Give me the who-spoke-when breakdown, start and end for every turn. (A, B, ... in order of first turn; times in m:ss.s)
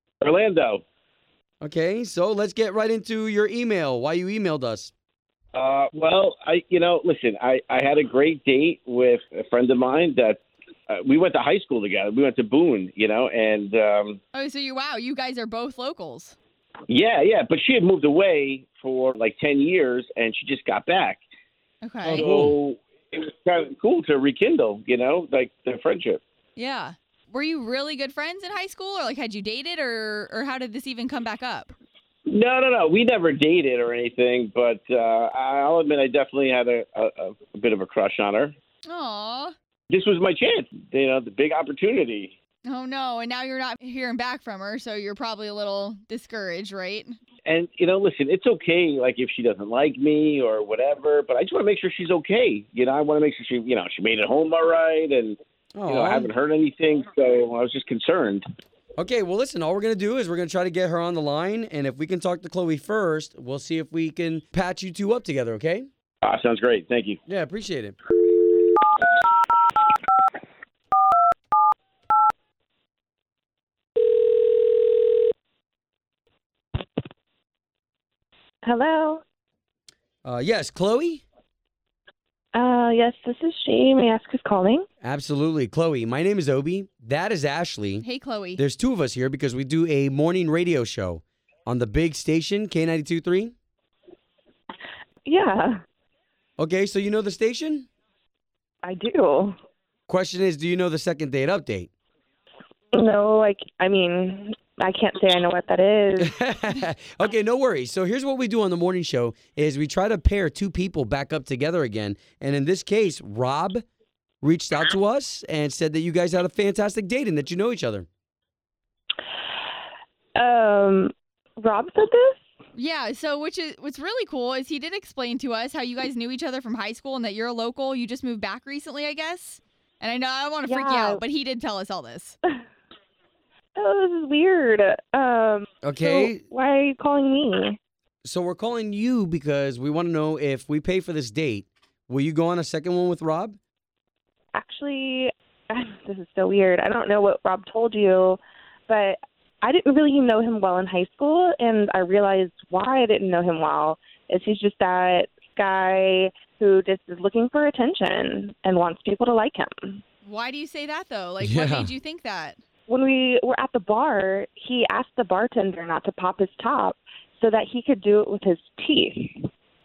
0:00.2-0:00.8 A
0:01.6-0:04.9 B
0:05.5-0:14.2 A
0:14.3-0:16.4 C
0:16.9-0:21.2 A
0:21.8-0:22.2 C
0:22.0-0:22.6 B
0:22.0-0:26.2 A
0:26.6-0:31.7 C
0:32.3-0:38.5 A
0:38.8-0:39.5 C
0:39.9-0:42.3 A
0:42.7-0:47.1 C
0:47.4-0:58.4 A
0:55.7-0:56.3 B
0:59.0-1:05.9 B
1:06.2-1:07.2 A
1:07.3-1:08.0 B
1:18.6-1:19.2 D
1:20.2-1:21.2 B
1:22.5-1:24.8 D
1:25.0-1:33.5 B
1:28.0-1:28.6 C
1:35.2-1:35.8 D
1:36.6-1:37.9 B
1:38.8-1:39.6 D
1:40.1-1:41.9 B
1:42.9-1:46.3 D
1:46.2-1:53.8 B
1:54.4-1:58.1 B
2:00.4-2:02.4 D
2:02.7-2:12.4 C
2:10.6-2:11.2 D
2:13.8-2:17.8 D
2:15.8-2:16.4 B
2:18.2-2:23.6 B
2:24.5-2:40.0 D
2:40.2-2:42.6 C
2:41.4-2:41.9 B
2:42.9-2:49.4 D